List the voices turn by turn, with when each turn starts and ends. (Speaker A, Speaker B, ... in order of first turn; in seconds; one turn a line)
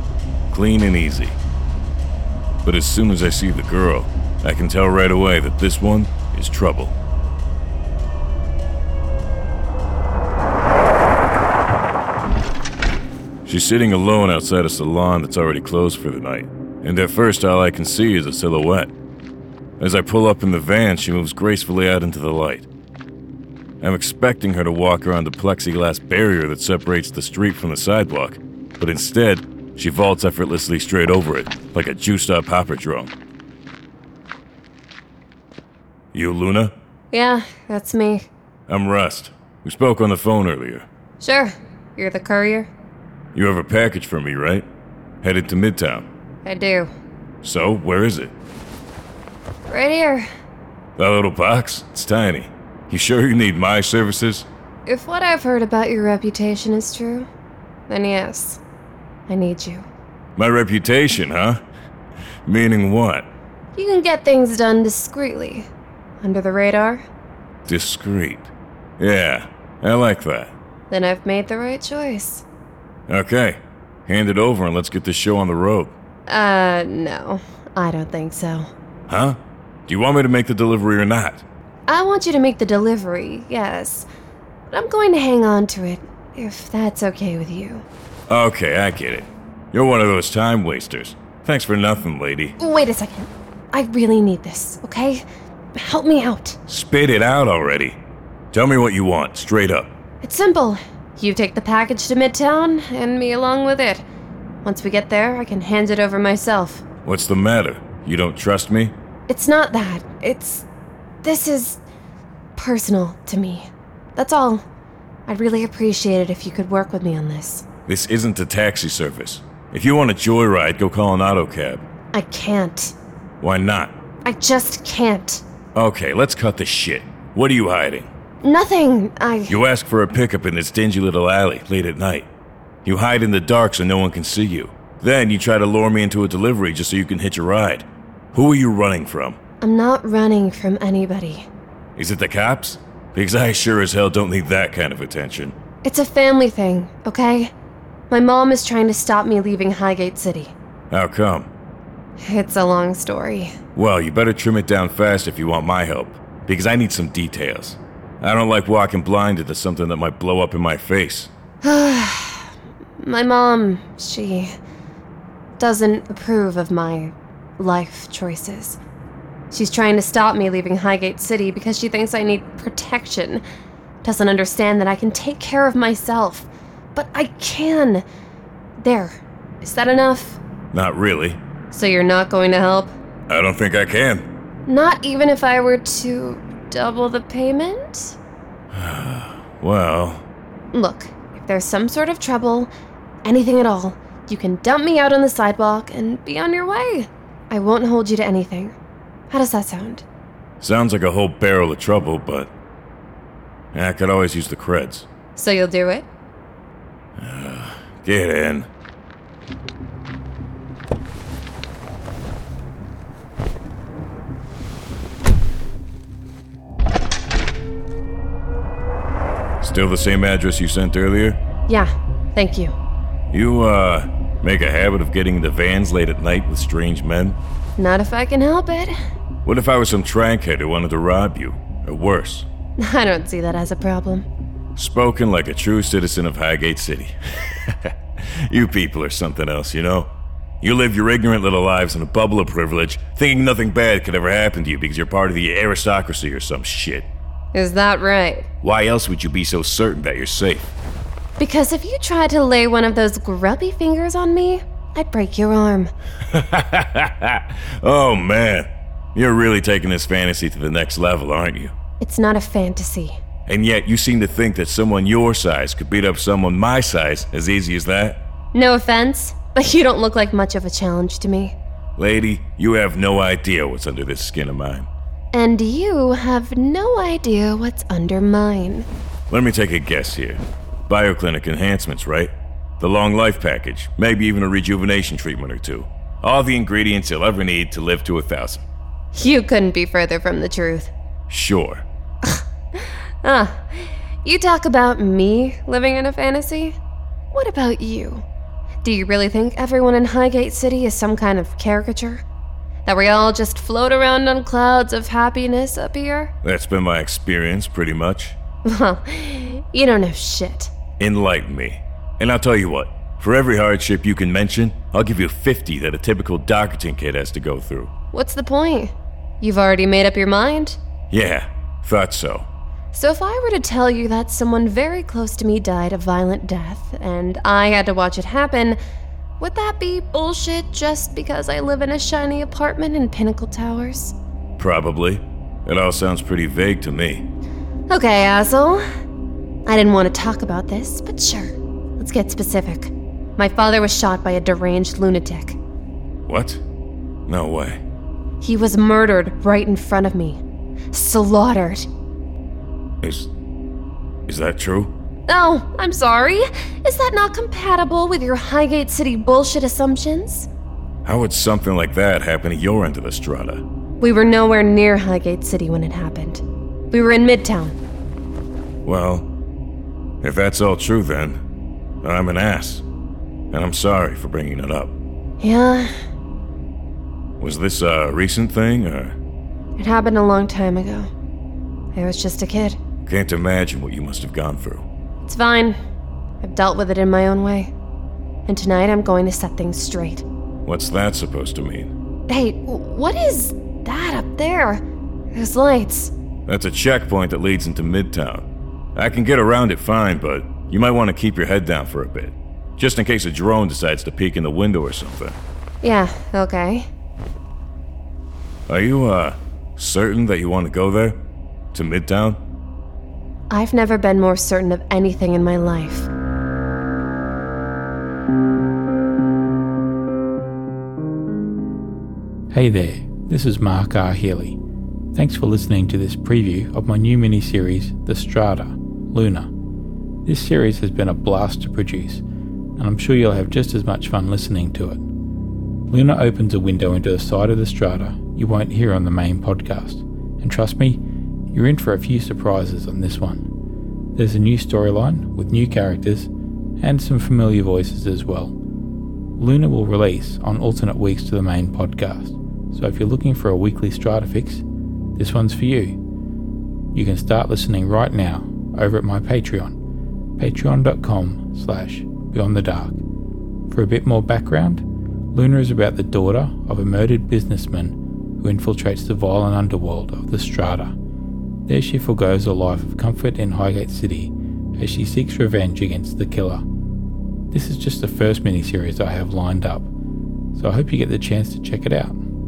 Speaker A: 0.5-1.4
Speaker A: 2.6-6.9
Speaker A: 13.5-18.9
Speaker A: 19.8-22.7
Speaker A: 23.8-33.1
Speaker A: 36.1-36.7
Speaker B: 37.1-38.3
Speaker A: 38.7-40.9
Speaker B: 41.2-42.7
Speaker A: 43.3-44.6
Speaker A: 45.2-46.1
Speaker B: 46.4-46.9
Speaker A: 47.4-48.3
Speaker B: 49.7-50.3
Speaker A: 51.0-54.5
Speaker B: 54.9-57.3
Speaker B: 57.9-58.6
Speaker B: 59.3-59.9
Speaker A: 60.4-61.6
Speaker A: 62.5-63.3
Speaker B: 63.7-65.7
Speaker B: 66.2-67.0
Speaker A: 67.7-70.5
Speaker B: 70.9-72.4
Speaker A: 73.1-75.9
Speaker B: 76.3-78.7
Speaker A: 79.1-81.4
Speaker B: 81.9-84.1
Speaker B: 84.7-87.8
Speaker A: 88.3-92.5
Speaker B: 92.6-95.2
Speaker B: 95.8-96.6
Speaker A: 96.7-98.0
Speaker A: 98.5-99.9
Speaker B: 100.2-104.0
Speaker B: 104.6-106.8
Speaker A: 107.0-108.9
Speaker B: 109.3-110.7
Speaker B: 111.2-111.8
Speaker B: 112.5-114.6
Speaker B: 115.3-117.7
Speaker A: 117.9-121.8
Speaker B: 122.1-122.9
Speaker A: 123.4-123.9
Speaker B: 124.2-125.4
Speaker A: 125.7-128.1
Speaker B: 128.4-129.6
Speaker A: 129.5-132.3
Speaker A: 132.8-139.4
Speaker B: 139.6-141.5
Speaker A: 141.9-145.5
Speaker B: 145.8-147.5
Speaker B: 148.1-150.5
Speaker A: 150.9-151.5
Speaker B: 152.2-153.5
Speaker A: 153.7-161.3
Speaker B: 161.6-164.5
Speaker B: 165.6-168.8
Speaker B: 169.5-173.4
Speaker B: 174.0-178.0
Speaker B: 178.8-180.4
Speaker A: 180.7-181.4
Speaker B: 181.7-182.9
Speaker A: 183.3-184.3
Speaker B: 184.7-188.2
Speaker A: 188.7-190.2
Speaker B: 190.7-192.7
Speaker B: 193.2-198.7
Speaker B: 199.3-200.0
Speaker A: 200.6-202.5
Speaker A: 203.7-205.1
Speaker B: 205.3-206.1
Speaker A: 207.2-208.7
Speaker A: 219.6-221.4
Speaker B: 221.7-222.7
Speaker A: 223.3-227.4
Speaker B: 227.8-228.9
Speaker A: 229.4-232.5
Speaker B: 232.8-234.3
Speaker A: 234.8-240.1
Speaker A: 240.6-247.1
Speaker B: 247.5-248.5
Speaker A: 248.6-250.7
Speaker B: 251.4-255.9
Speaker A: 256.3-261.7
Speaker B: 262.0-263.2
Speaker A: 263.5-268.2
Speaker B: 268.5-271.6
Speaker A: 272.0-274.9
Speaker B: 275.3-278.9
Speaker A: 279.3-288.6
Speaker B: 289.1-290.9
Speaker A: 291.3-291.8
Speaker B: 292.2-296.8
Speaker B: 297.3-298.2
Speaker B: 298.8-302.2
Speaker B: 302.8-306.3
Speaker A: 306.4-308.4
Speaker B: 308.6-310.7
Speaker A: 311.0-317.9
Speaker B: 318.1-320.8
Speaker A: 321.1-322.4
Speaker B: 322.9-328.8
Speaker B: 329.4-334.1
Speaker A: 334.6-337.3
Speaker B: 337.9-338.8
Speaker B: 339.6-345.6
Speaker A: 346.3-346.6
Speaker A: 347.3-347.8
Speaker B: 348.4-350.4
Speaker B: 350.9-351.9
Speaker A: 353.0-353.3
Speaker A: 354.3-354.9
Speaker B: 355.3-360.5
Speaker A: 361.0-363.6
Speaker B: 364.0-367.7
Speaker A: 368.8-369.3
Speaker A: 370.2-371.4
Speaker A: 372.0-372.8
Speaker A: 373.5-374.9
Speaker B: 375.4-375.9
Speaker A: 377.4-379.1
Speaker B: 379.8-381.1
Speaker B: 381.9-382.8
Speaker A: 383.1-384.8
Speaker B: 385.2-385.8
Speaker B: 386.4-387.7
Speaker B: 388.4-390.2
Speaker A: 390.6-391.9
Speaker B: 392.3-396.1
Speaker A: 396.5-405.4
Speaker B: 405.8-406.9
Speaker A: 408.7-411.2
Speaker A: 411.7-412.4
Speaker B: 413.5-416.1
Speaker C: 422.5-424.6
Speaker C: 425.1-429.5
Speaker C: 430.2-432.2
Speaker C: 432.8-435.0
Speaker C: 435.9-441.0
Speaker C: 441.5-443.5
Speaker C: 444.1-448.6
Speaker C: 449.4-454.6
Speaker C: 455.1-456.0
Speaker C: 456.9-459.8
Speaker C: 460.4-463.0
Speaker C: 463.7-470.9
Speaker C: 471.7-476.6
Speaker C: 477.5-479.9
Speaker C: 480.5-482.2